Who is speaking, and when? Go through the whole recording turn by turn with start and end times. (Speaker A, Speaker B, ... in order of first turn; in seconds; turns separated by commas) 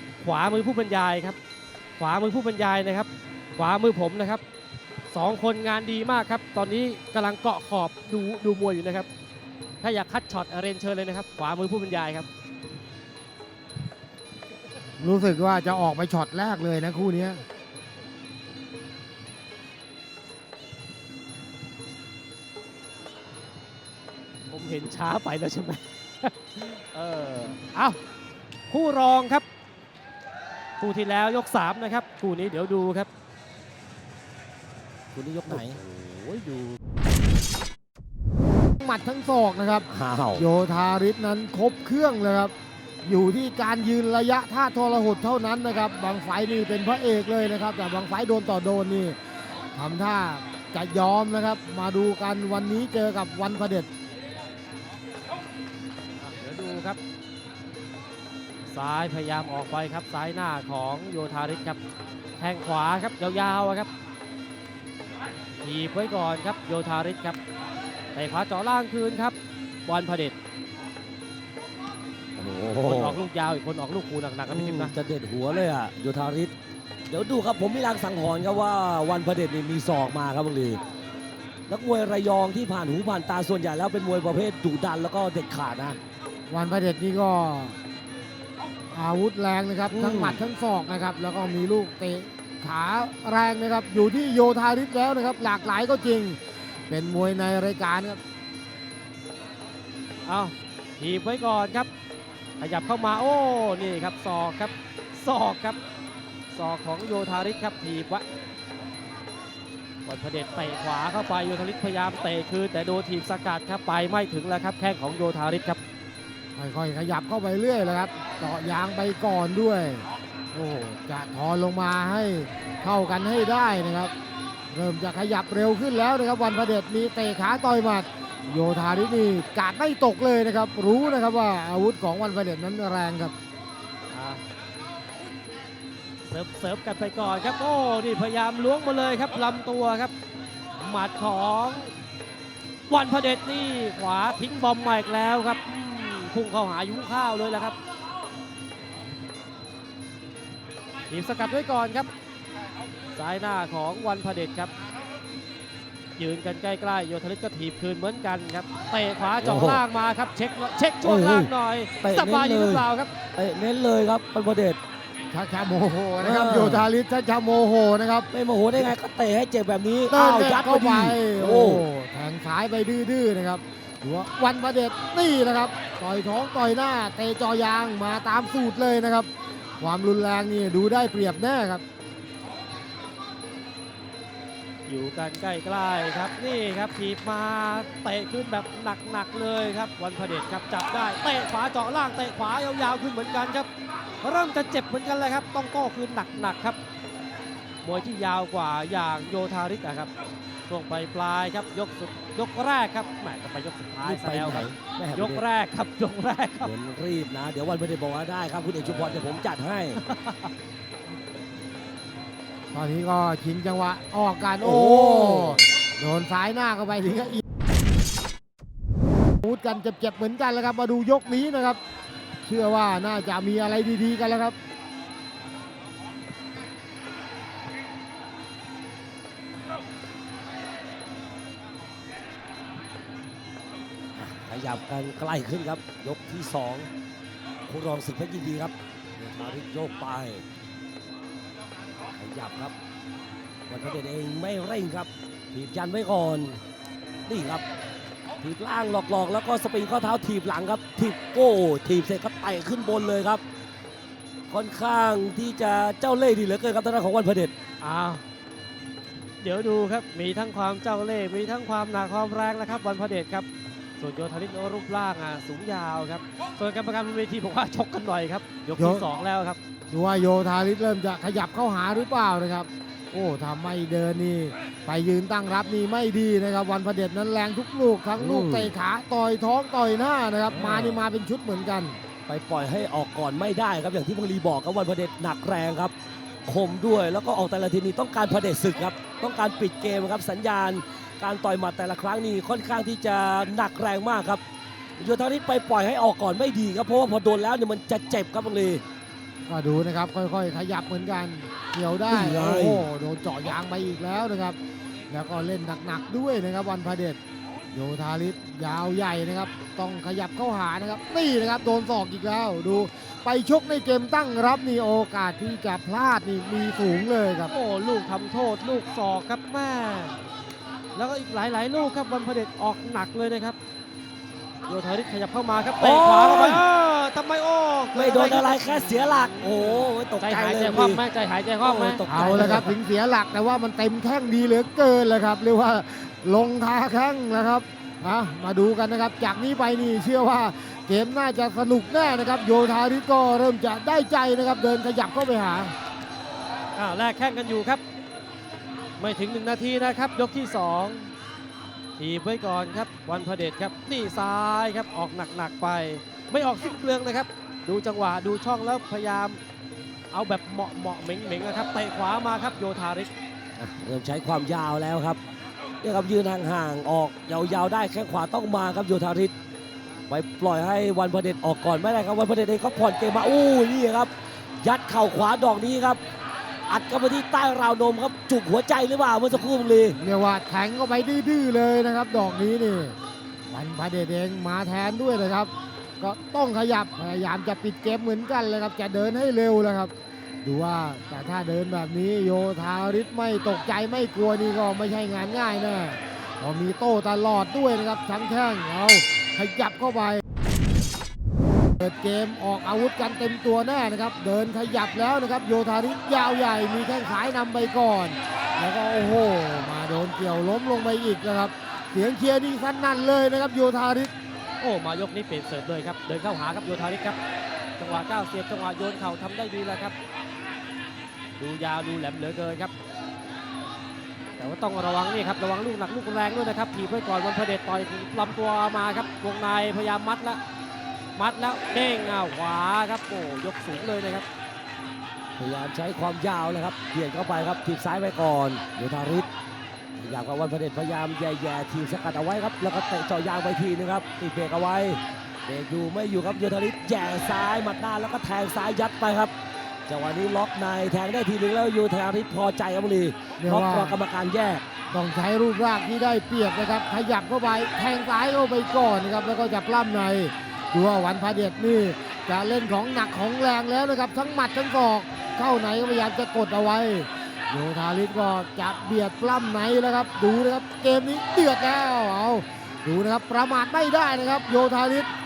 Speaker A: 0.2-1.4, Speaker A: 2.0-4.4, Speaker A: 5.1-9.1, Speaker A: 9.8-12.3, Speaker B: 15.0-17.4, Speaker A: 24.5-28.0, Speaker A: 28.7-29.4, Speaker A: 30.8-33.1, Speaker C: 35.1-35.8, Speaker A: 35.5-36.8, Speaker B: 38.8-42.5, Speaker C: 39.9-40.5, Speaker B: 43.0-49.2, Speaker B: 49.7-53.9, Speaker A: 56.2-57.0, Speaker A: 58.7-61.8, Speaker A: 62.4-63.9, Speaker A: 65.6-67.4, Speaker A: 68.1-70.3, Speaker C: 72.4-73.2, Speaker A: 72.8-74.9, Speaker C: 74.5-76.5, Speaker C: 77.1-80.8, Speaker C: 81.7-86.0, Speaker B: 86.5-87.8, Speaker B: 88.9-98.2, Speaker C: 89.9-90.4, Speaker A: 100.2-101.9, Speaker A: 102.6-105.8, Speaker A: 106.5-108.2, Speaker A: 110.0-115.8, Speaker B: 116.5-124.1, Speaker B: 124.7-133.3, Speaker A: 134.1-134.4, Speaker A: 136.3-140.1, Speaker A: 140.8-141.9, Speaker A: 142.9-147.8, Speaker A: 151.1-152.1, Speaker A: 153.1-154.7, Speaker A: 156.2-163.1, Speaker C: 159.4-159.8, Speaker C: 161.0-164.8, Speaker B: 165.3-168.3, Speaker C: 166.2-166.9, Speaker C: 168.3-171.8, Speaker B: 170.1-179.3, Speaker B: 179.8-181.8, Speaker A: 184.9-193.7, Speaker A: 194.2-196.8, Speaker A: 197.8-200.1, Speaker A: 200.7-206.7, Speaker C: 204.0-205.4, Speaker C: 206.6-210.0, Speaker A: 210.0-210.5, Speaker B: 212.7-217.4, Speaker C: 214.6-215.7, Speaker B: 219.4-221.8, Speaker B: 222.4-224.6, Speaker C: 234.2-236.9, Speaker C: 237.7-240.4, Speaker C: 242.2-242.7, Speaker C: 243.7-246.6, Speaker C: 247.3-247.6, Speaker C: 248.4-253.4, Speaker C: 254.5-257.5, Speaker A: 257.8-258.2, Speaker A: 259.4-263.5, Speaker A: 264.0-269.6, Speaker B: 268.8-269.1, Speaker B: 269.9-282.0, Speaker C: 278.1-278.7, Speaker C: 280.5-281.0, Speaker C: 282.3-285.9, Speaker C: 286.5-294.4, Speaker C: 295.0-298.8, Speaker B: 299.5-304.6, Speaker C: 302.1-302.9, Speaker B: 305.1-307.2, Speaker B: 307.7-317.5, Speaker A: 317.5-320.1, Speaker A: 320.9-323.6, Speaker A: 324.7-332.0, Speaker C: 325.8-326.6, Speaker C: 327.9-331.0, Speaker C: 331.6-332.7, Speaker B: 332.1-345.7, Speaker A: 346.7-347.8, Speaker A: 349.0-351.1, Speaker A: 352.0-359.4, Speaker A: 360.1-363.1, Speaker C: 363.6-365.2, Speaker C: 365.8-369.3, Speaker C: 370.1-374.1, Speaker C: 374.6-376.0, Speaker C: 376.7-380.0, Speaker B: 380.0-383.0, Speaker B: 383.5-400.2, Speaker B: 401.8-414.1, Speaker A: 414.6-417.2, Speaker A: 417.8-419.9, Speaker A: 421.4-422.7, Speaker A: 424.4-430.4, Speaker A: 431.1-434.2, Speaker C: 435.4-439.3, Speaker C: 440.0-449.3, Speaker C: 449.9-454.6, Speaker B: 453.4-454.0, Speaker B: 454.9-475.1